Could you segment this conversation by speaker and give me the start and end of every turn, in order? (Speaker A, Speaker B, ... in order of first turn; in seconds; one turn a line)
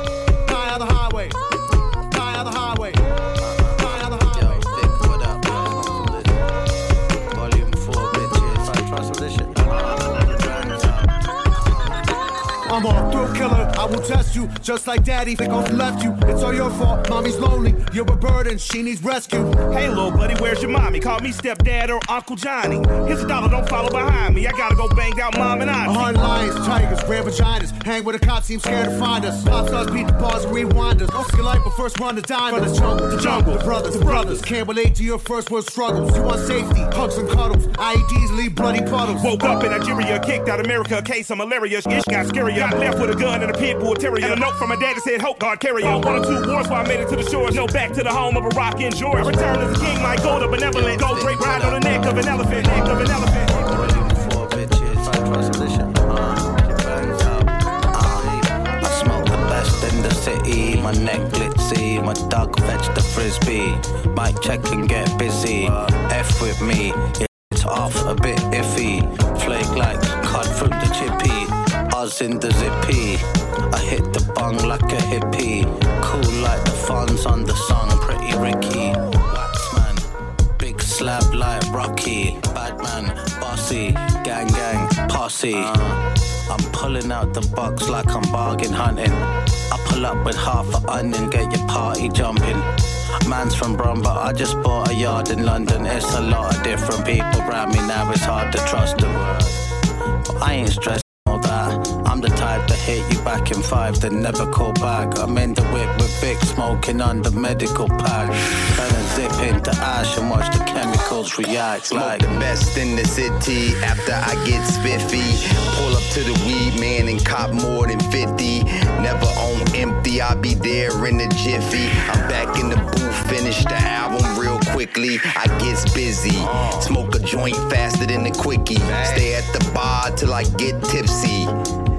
Speaker A: 0.5-1.4
Speaker A: 2.1-3.0
Speaker B: 3.4-6.5
Speaker A: 3.8-4.5
Speaker B: 7.3-11.1
Speaker A: 12.7-19.6
Speaker C: 19.7-26.1
Speaker A: 25.9-39.3
Speaker C: 32.5-34.5
Speaker C: 39.2-53.6
Speaker B: 51.1-51.8
Speaker B: 53.5-80.0
Speaker B: 80.6-92.7
Speaker B: 93.2-99.6
Speaker B: 100.4-112.5
Speaker D: 111.8-131.5